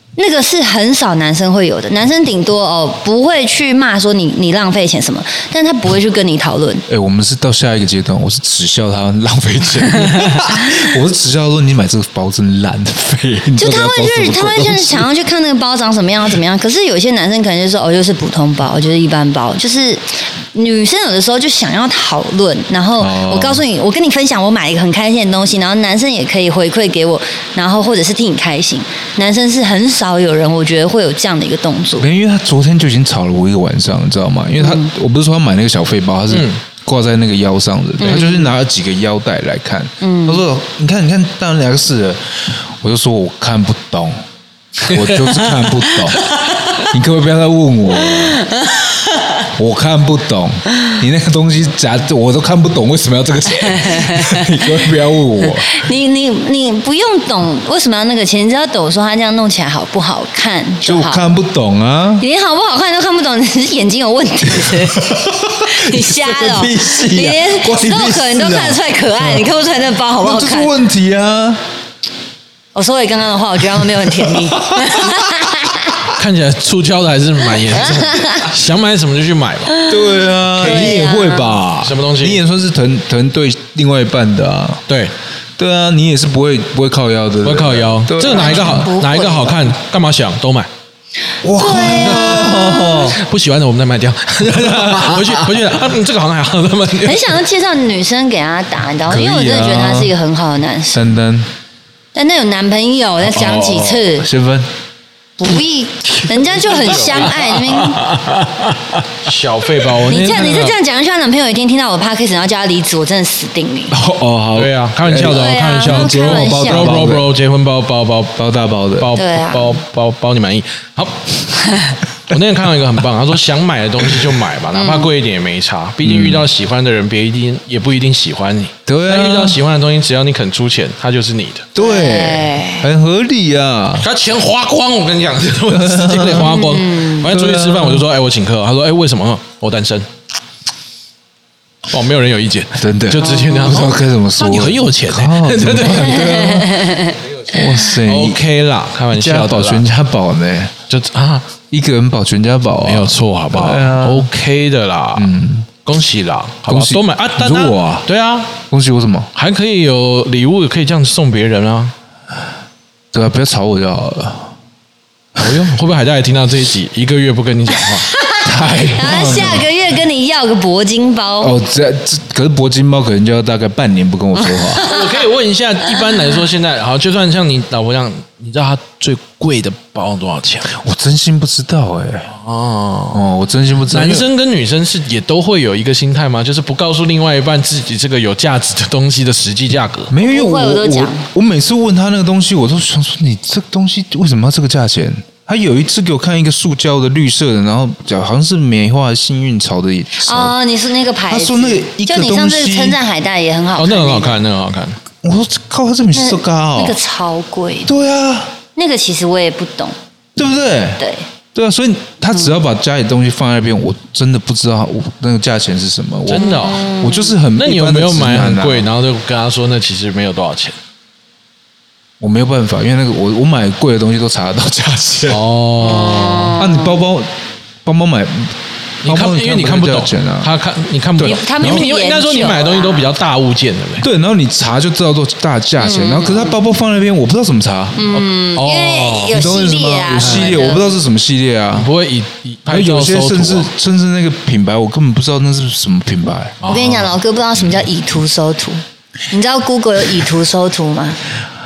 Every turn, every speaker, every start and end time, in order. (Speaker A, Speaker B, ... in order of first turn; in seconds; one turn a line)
Speaker A: 0.2-6.8
Speaker B: 6.9-15.1
Speaker A: 13.6-32.1
Speaker B: 23.0-23.6
Speaker B: 32.0-44.2
Speaker A: 34.6-34.9
Speaker C: 36.3-36.6
Speaker A: 38.0-38.5
Speaker A: 40.0-40.4
Speaker C: 44.9-45.7
Speaker B: 44.9-46.2
Speaker B: 46.8-48.4
Speaker A: 48.1-48.9
Speaker B: 49.5-55.8
Speaker A: 53.6-54.6
Speaker A: 55.5-61.2
Speaker B: 60.8-62.2
Speaker A: 62.2-70.7
Speaker B: 64.6-69.5
Speaker B: 70.2-71.6
Speaker A: 72.7-76.0
Speaker B: 74.1-75.5
Speaker C: 76.1-79.8
Speaker A: 77.7-78.5
Speaker A: 79.7-81.6
Speaker B: 79.9-84.8
Speaker C: 81.8-82.4
Speaker C: 84.9-85.1
Speaker B: 85.6-88.9
Speaker C: 87.4-90.7
Speaker A: 88.2-89.7
Speaker B: 91.4-93.2
Speaker A: 91.5-93.1
Speaker C: 92.0-97.4
Speaker B: 94.5-95.6
Speaker A: 97.0-101.1
Speaker B: 99.1-100.1
Speaker B: 100.9-101.5
Speaker A: 102.1-104.3
Speaker C: 103.3-104.0
Speaker B: 104.1-104.7
Speaker A: 105.4-108.0
Speaker C: 106.5-110.7
Speaker A: 110.0-114.0
Speaker B: 110.2-110.5
Speaker B: 113.9-117.3
Speaker C: 114.5-118.3
Speaker A: 115.2-117.0
Speaker B: 118.4-119.1
Speaker C: 119.0-121.4
Speaker A: 119.1-119.8
Speaker A: 121.6-122.0
Speaker C: 122.3-131.7
Speaker A: 124.7-125.1
Speaker B: 126.0-126.5
Speaker B: 128.8-129.6
Speaker B: 131.7-134.1
Speaker A: 131.8-132.9
Speaker C: 134.0-140.1
Speaker B: 135.7-136.6
Speaker A: 136.3-137.3
Speaker B: 137.2-138.1
Speaker C: 141.9-146.5
Speaker B: 142.7-148.4
Speaker A: 143.2-143.9
Speaker A: 146.0-147.2
Speaker C: 147.5-149.8
Speaker B: 149.1-150.7
Speaker C: 150.9-151.5
Speaker B: 151.7-154.3
Speaker C: 152.8-155.3
Speaker B: 155.1-155.7
Speaker C: 155.8-158.5
Speaker B: 156.7-158.1
Speaker B: 158.7-159.3
Speaker C: 159.3-161.9
Speaker B: 163.1-164.5
Speaker C: 165.4-168.1
Speaker A: 167.9-171.5
Speaker B: 168.4-169.7
Speaker B: 171.4-174.8
Speaker A: 174.4-175.2
Speaker C: 174.8-180.7
Speaker B: 180.7-182.3
Speaker C: 182.3-183.2
Speaker B: 183.1-184.3
Speaker C: 183.9-190.1
Speaker B: 190.1-200.5
Speaker A: 190.2-191.2
Speaker A: 200.2-204.4
Speaker B: 201.3-203.0
Speaker C: 203.8-205.0
Speaker B: 205.2-207.0
Speaker A: 206.1-207.9
Speaker B: 207.8-208.5
Speaker A: 208.8-209.9
Speaker B: 210.3-211.0
Speaker A: 211.0-211.2
Speaker B: 211.5-218.9
Speaker C: 216.3-216.8
Speaker A: 216.3-217.3
Speaker C: 217.6-220.8
Speaker B: 222.2-225.4
Speaker C: 225.3-226.6
Speaker A: 225.8-227.0
Speaker B: 226.6-227.3
Speaker B: 227.8-230.5
Speaker C: 229.0-234.1
Speaker B: 231.2-231.8
Speaker A: 231.2-233.1
Speaker B: 234.0-238.0
Speaker A: 235.8-236.6
Speaker A: 237.9-240.9
Speaker C: 238.1-239.3
Speaker B: 239.3-241.9
Speaker C: 240.2-240.6
Speaker C: 241.7-243.7
Speaker B: 242.7-246.6
Speaker C: 246.6-247.2
Speaker A: 246.7-251.2